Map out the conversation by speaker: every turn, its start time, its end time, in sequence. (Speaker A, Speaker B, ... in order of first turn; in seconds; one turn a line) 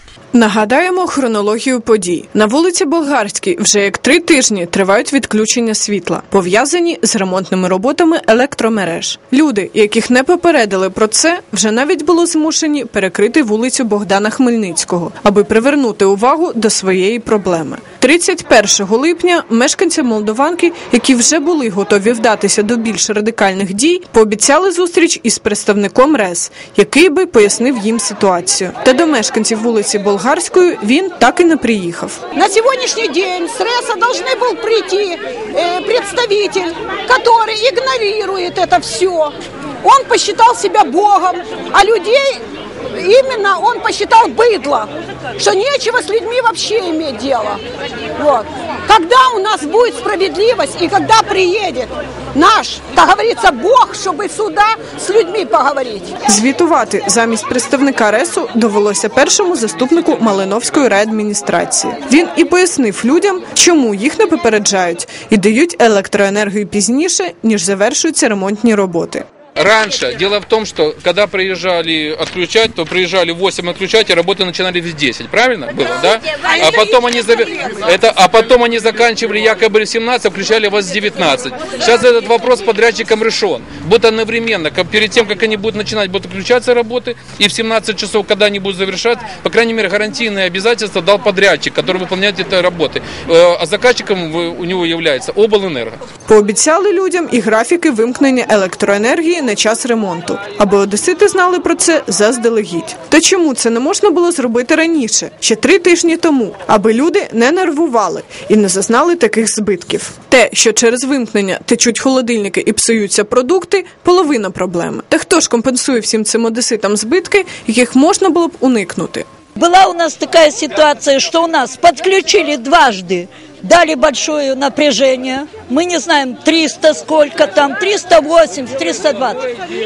Speaker A: 0.3-32.2
Speaker B: 32.3-42.4
Speaker B: 43.0-47.6
Speaker B: 48.2-56.1
Speaker A: 56.2-69.2
Speaker C: 69.6-96.0
Speaker A: 96.2-119.2
Speaker D: 119.6-129.4